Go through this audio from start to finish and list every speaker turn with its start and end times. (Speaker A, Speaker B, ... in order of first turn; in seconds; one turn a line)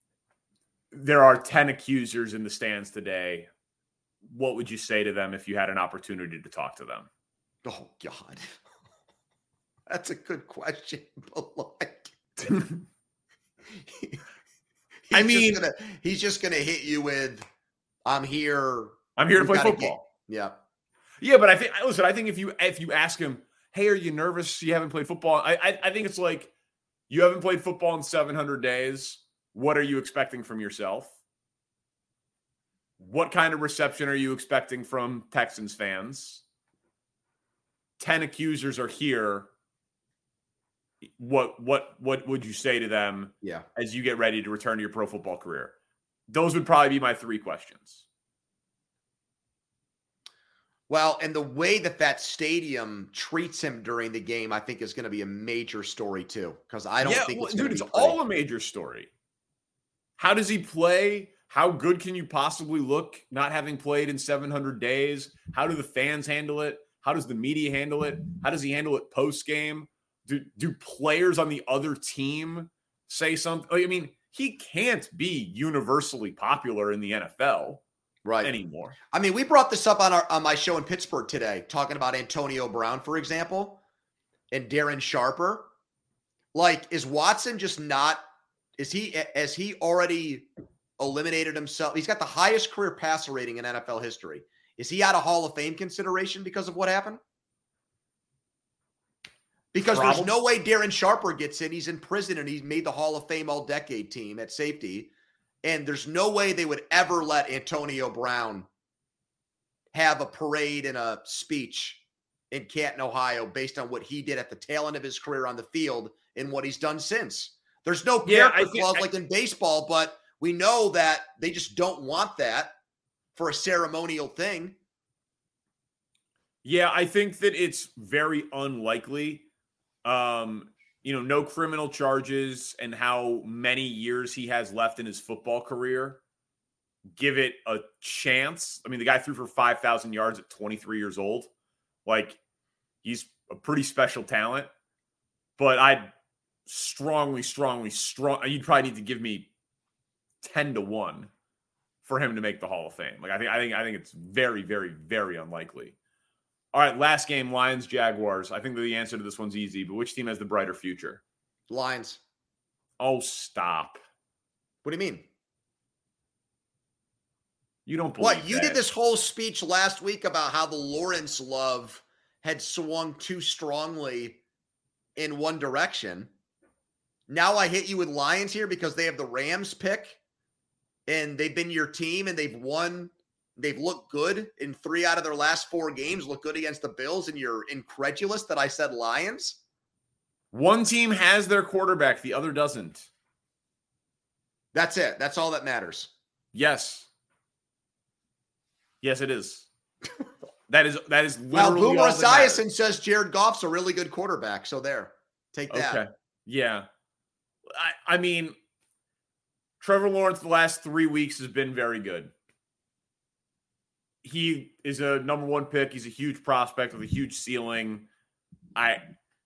Speaker A: 0.9-3.5
Speaker A: 4.2-7.1
Speaker B: 7.6-8.6
Speaker B: 9.9-12.6
Speaker A: 12.5-12.8
Speaker B: 13.7-14.2
Speaker B: 15.1-17.4
Speaker A: 15.1-15.6
Speaker B: 18.1-20.6
Speaker A: 19.2-20.0
Speaker A: 21.2-26.5
Speaker A: 27.1-31.1
Speaker A: 33.0-36.4
Speaker A: 38.0-39.5
Speaker A: 41.1-45.7
Speaker A: 46.3-48.0
Speaker B: 50.9-58.2
Speaker A: 57.0-59.1
Speaker A: 60.2-77.8
Speaker B: 78.2-78.5
Speaker A: 78.4-79.0
Speaker B: 79.1-83.8
Speaker B: 84.5-85.7
Speaker B: 86.5-88.2
Speaker B: 88.8-90.5
Speaker B: 91.0-97.2
Speaker B: 99.7-105.1
Speaker A: 99.9-100.3
Speaker B: 105.6-108.7
Speaker B: 109.9-122.7
Speaker A: 118.2-119.1
Speaker B: 123.3-124.8
Speaker A: 126.6-129.4
Speaker A: 130.1-136.2
Speaker A: 137.2-141.5
Speaker A: 142.1-142.4
Speaker A: 143.0-144.7
Speaker A: 145.6-146.1
Speaker A: 146.7-149.5
Speaker A: 150.4-151.3
Speaker A: 152.1-156.0
Speaker A: 156.7-161.2
Speaker B: 161.7-162.2
Speaker A: 163.0-164.0
Speaker B: 164.8-165.2
Speaker A: 167.9-168.8
Speaker B: 168.2-174.4
Speaker B: 175.2-176.3
Speaker B: 177.3-180.2
Speaker B: 181.1-189.6
Speaker A: 190.5-193.1
Speaker B: 194.7-196.1
Speaker A: 196.5-197.1
Speaker A: 199.0-199.7
Speaker A: 200.7-202.6
Speaker B: 201.5-206.0
Speaker A: 205.7-206.9
Speaker A: 207.7-208.6
Speaker A: 209.8-212.3
Speaker A: 214.2-218.1
Speaker A: 218.8-219.1